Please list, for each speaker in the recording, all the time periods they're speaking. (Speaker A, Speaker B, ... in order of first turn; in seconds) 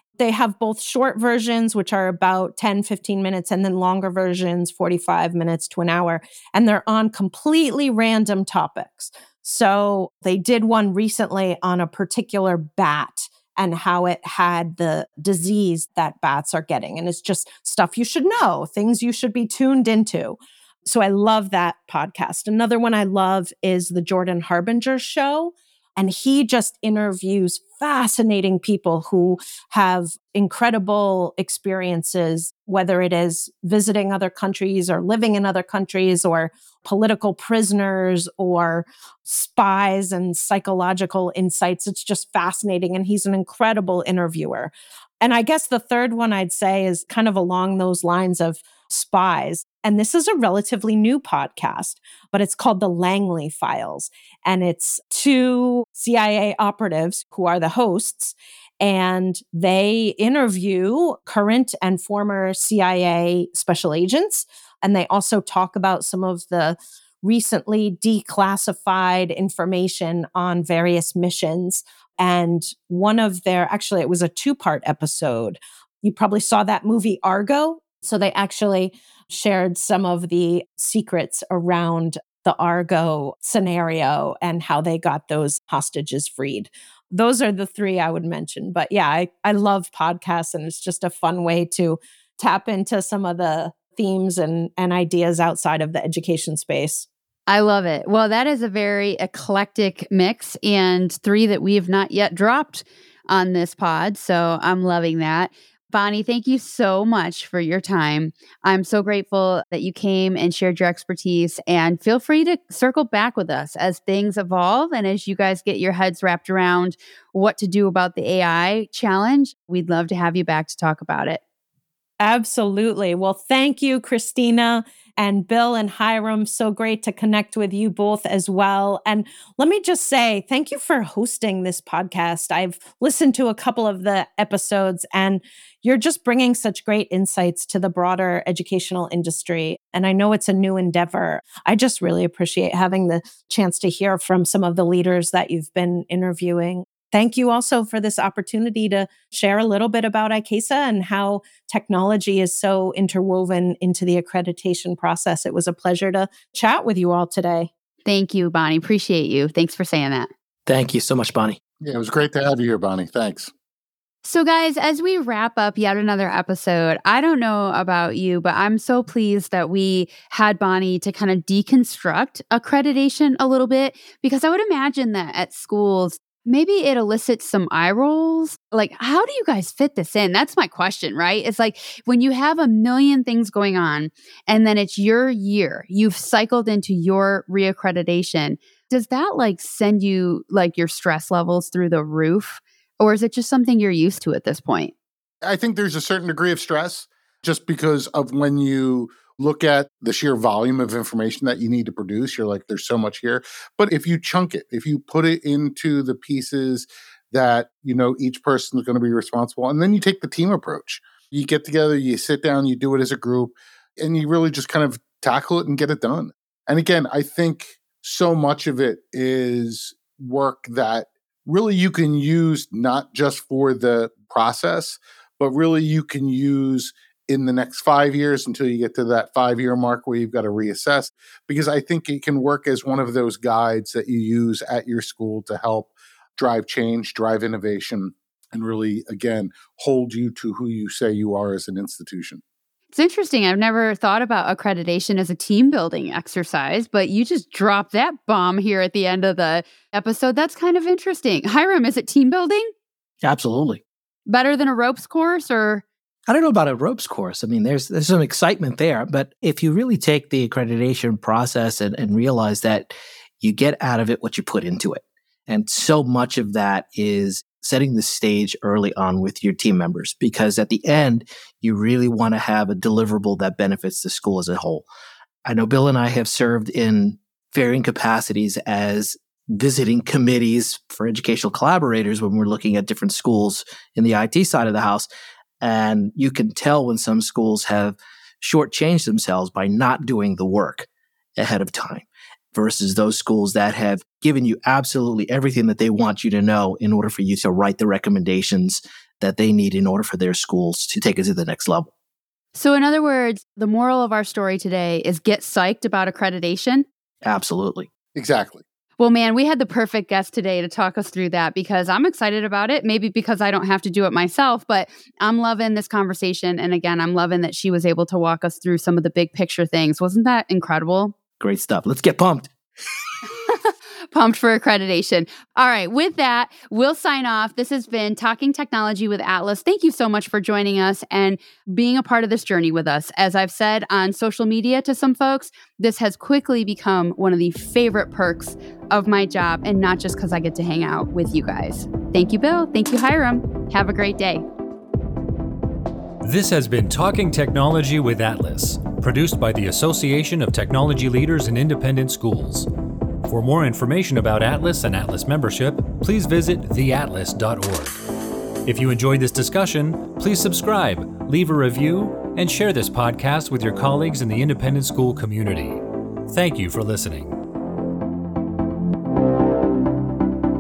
Speaker A: 0.2-97.1, 122.2-157.7
Speaker B: 97.5-121.4, 158.1-160.3, 164.2-194.9, 242.9-252.7, 254.3-255.8, 302.6-306.9, 309.0-321.1, 323.4-344.4
Speaker C: 160.7-161.6, 253.2-253.8, 256.3-274.9, 275.4-285.1, 285.6-301.9, 307.2-307.9, 321.4-322.5
Speaker D: 161.8-163.5, 195.4-242.4, 308.1-308.6
Speaker E: 346.2-352.7, 353.2-358.0, 358.7-367.4